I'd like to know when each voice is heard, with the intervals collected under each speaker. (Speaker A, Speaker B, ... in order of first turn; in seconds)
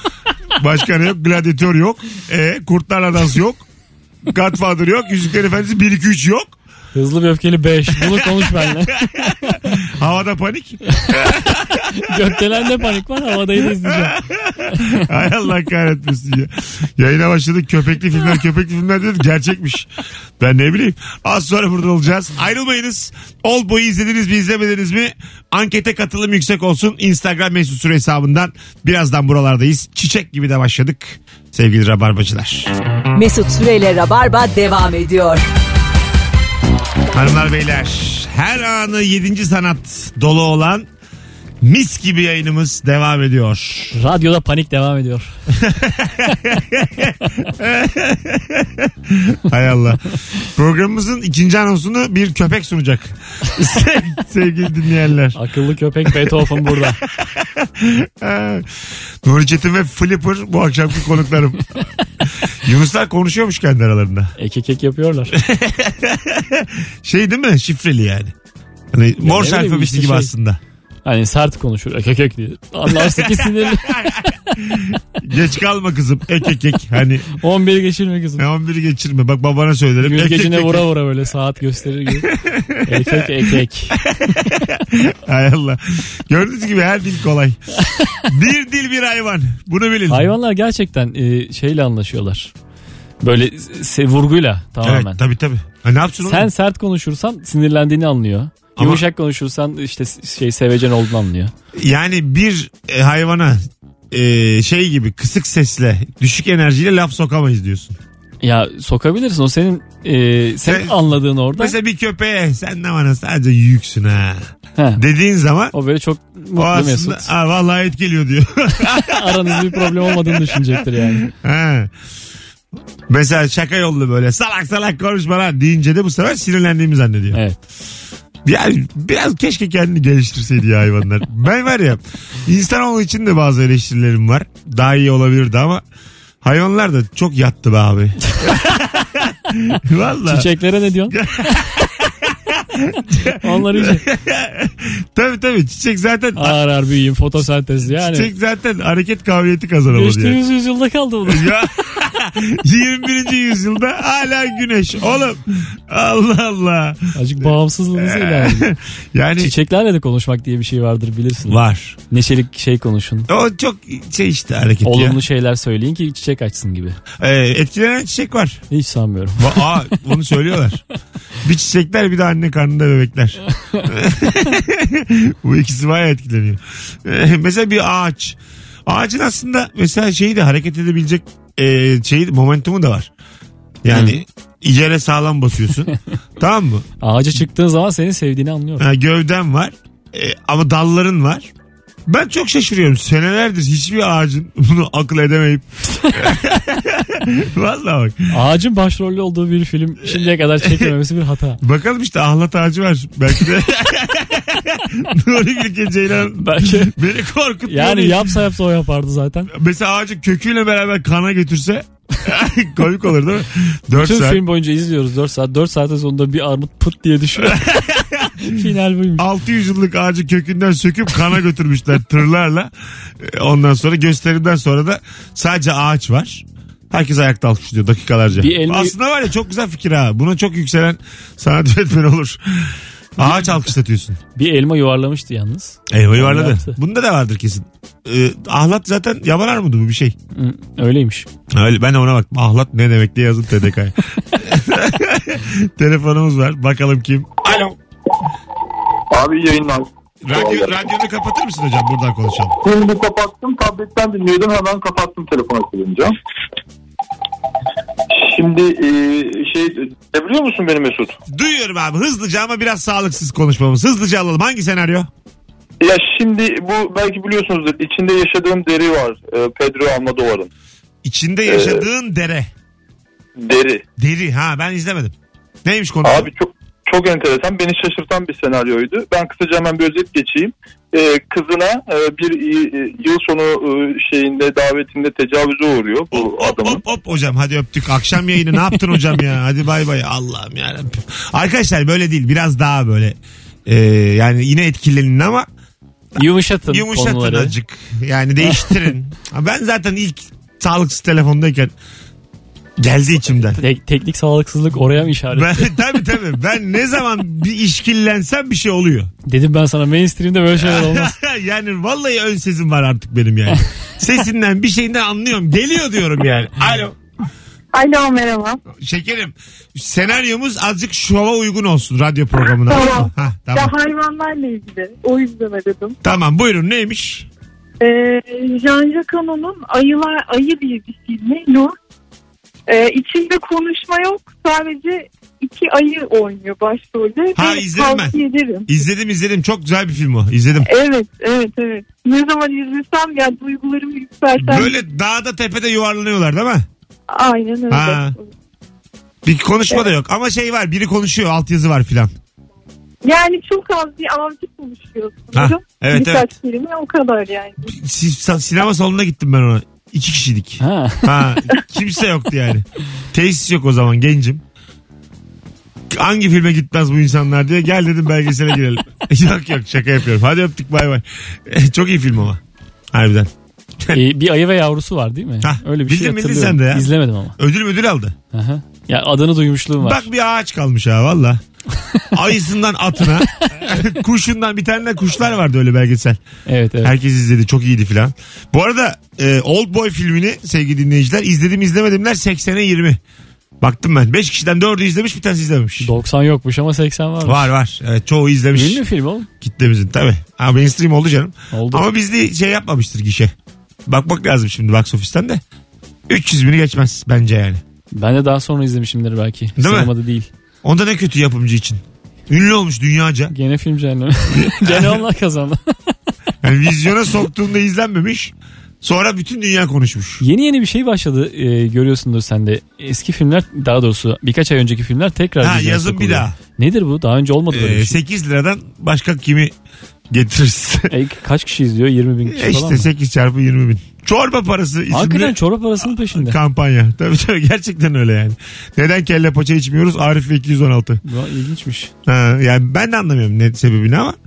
Speaker A: 0.6-3.7, 4.3-6.6, 8.0-11.8, 13.6-32.7, 37.1-40.9, 41.6-44.0, 45.5-50.0, 50.5-55.4, 56.2-58.7, 59.2-61.8, 62.6-64.3, 65.3-68.3, 68.9-70.6, 72.9-77.3, 78.4-80.9, 82.2-87.6, 88.3-90.3, 94.8-96.5, 98.8-99.0, 101.8-108.0, 110.7-111.0, 111.5-115.7, 116.6-121.9, 123.1-127.4, 128.4-135.8, 136.4-140.5, 141.1-146.6, 147.9-150.4, 151.3-157.1, 157.9-159.5, 161.5-162.0, 163.3-165.2, 167.2-168.6, 169.4-170.8, 171.4-183.1, 183.8-186.9, 188.8-191.5, 192.1-198.3, 200.1-200.9, 201.6-208.4, 209.5-214.4, 217.4-218.6, 219.2-234.2, 235.9-240.2, 241.5-247.8, 250.2-252.6, 261.3-265.1, 271.0-272.5, 274.0-275.1, 275.6-276.3, 286.1-295.5, 296.7-301.7, 302.8-303.6, 305.3-309.1, 310.5-317.0, 318.8-323.8, 326.0-327.3, 337.4-340.7, 344.4-346.7, 347.7-348.1, 349.2-352.1, 355.3-356.3, 357.7-364.4, 365.9-372.4, 372.9-373.3, 375.4-378.2, 379.8-381.4, 382.1-386.2, 386.8-393.0, 393.6-395.9, 397.2-398.8, 399.4-403.3, 403.9-405.4, 406.1-407.6, 409.6-409.9, 410.6-413.3, 414.3-415.0, 416.4-420.2, 425.4-426.4, 427.5-429.5, 430.1-430.9, 432.3-435.4, 436.1-441.0, 442.1-444.2
Speaker B: 7.0-9.6, 11.9-14.2, 43.9-45.3, 55.4-57.0, 64.4-65.4, 69.2-70.3, 71.0-74.4, 77.3-78.5, 80.0-82.3, 82.9-84.0, 87.9-88.2, 90.1-92.5, 93.2-95.2, 96.2-101.5, 108.4-111.8, 114.8-115.0, 115.7-117.3, 119.0-121.3, 127.3-127.6, 140.3-141.2, 143.4-144.0, 146.4-148.3, 149.9-151.5, 157.2-158.7, 159.4-163.3, 164.8-167.0, 168.7-170.0, 183.9-184.2, 187.0-188.9, 198.3-201.6, 206.4-206.9, 207.7-209.5, 213.9-217.6, 218.4-219.3, 228.4-229.0, 233.2-233.6, 234.3-236.8, 240.3-241.3, 296.2-297.5, 298.4-298.9, 303.6-305.8, 309.3-311.1, 360.6-361.2, 373.9-377.4, 378.3-380.1, 386.5-386.9, 395.8-397.5, 398.5-399.3, 401.5-401.9, 407.9-410.3, 413.3-415.9, 420.2-428.0, 430.9-432.9, 434.9-436.4, 441.0-441.9
Speaker C: 33.1-35.4
Speaker D: 249.1-250.7, 252.6-256.1, 258.1-261.2, 265.8-270.5, 271.5-271.8, 273.4-273.8, 276.0-286.8
Speaker E: 317.7-318.6, 322.5-326.0, 327.8-331.8, 332.7-338.7, 340.6-344.8, 347.1-348.3, 353.0-357.7